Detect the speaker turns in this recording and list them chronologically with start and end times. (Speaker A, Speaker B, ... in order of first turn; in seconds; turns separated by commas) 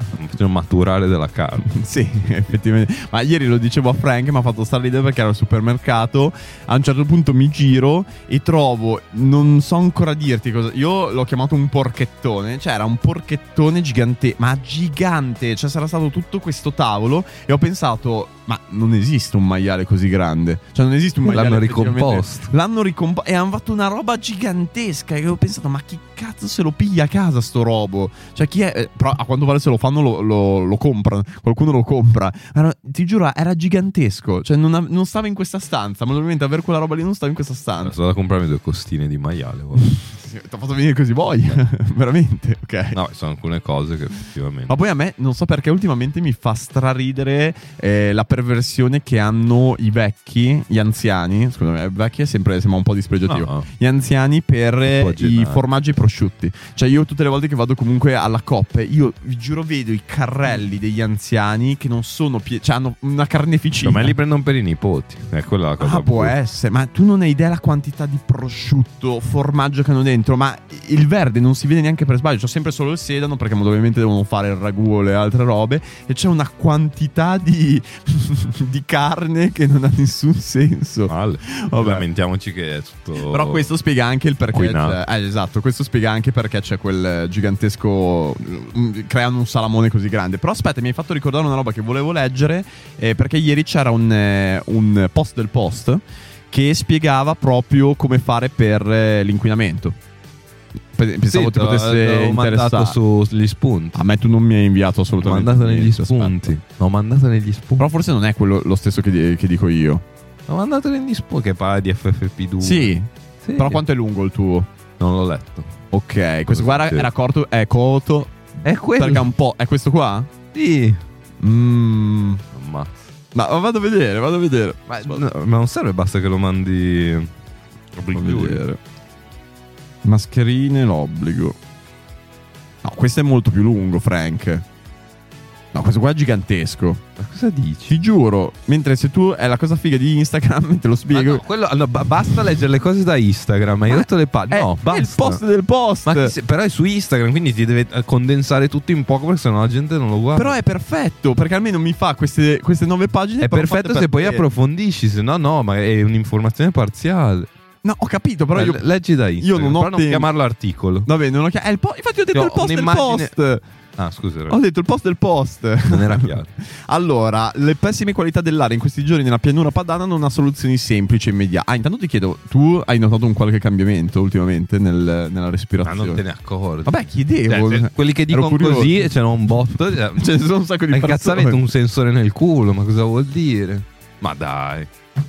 Speaker A: 0.1-1.7, Speaker B: 1.7-38.0, Speaker A: 21.2-22.5, Speaker A: 37.8-39.9, Speaker B: 39.9-43.0, Speaker A: 42.9-44.7, Speaker B: 44.7-64.2, Speaker A: 53.3-53.7, Speaker A: 54.8-55.6, Speaker A: 63.8-66.3, Speaker B: 65.8-82.0, Speaker A: 81.1-83.7, Speaker B: 83.2-100.0, Speaker A: 84.5-85.0, Speaker B: 101.0-103.0, Speaker A: 101.3-104.0, Speaker B: 103.9-106.5, Speaker A: 105.2-107.9, Speaker B: 107.8-110.0, Speaker A: 110.5-112.9, Speaker B: 112.6-114.7, Speaker A: 113.4-113.8, Speaker A: 115.0-115.7, Speaker B: 115.9-120.3, Speaker A: 116.5-117.1, Speaker A: 118.6-119.3, Speaker A: 120.5-121.0, Speaker B: 121.4-122.4, Speaker A: 122.5-123.0, Speaker B: 123.3-125.3, Speaker A: 124.9-127.3, Speaker A: 128.0-128.6, Speaker B: 128.1-128.8, Speaker B: 130.0-131.6, Speaker B: 132.8-134.7, Speaker B: 135.7-137.0, Speaker A: 137.2-138.0, Speaker B: 137.9-141.4, Speaker A: 141.1-145.4, Speaker B: 143.9-146.3, Speaker A: 146.1-150.6, Speaker B: 150.3-154.4, Speaker A: 153.4-157.5, Speaker B: 157.8-160.3, Speaker A: 158.5-161.1, Speaker B: 161.1-163.6, Speaker A: 162.3-163.3, Speaker A: 164.0-164.6, Speaker B: 164.5-176.2, Speaker A: 165.9-166.5, Speaker A: 175.8-180.3, Speaker B: 176.8-179.0, Speaker B: 180.2-181.7, Speaker A: 180.9-184.9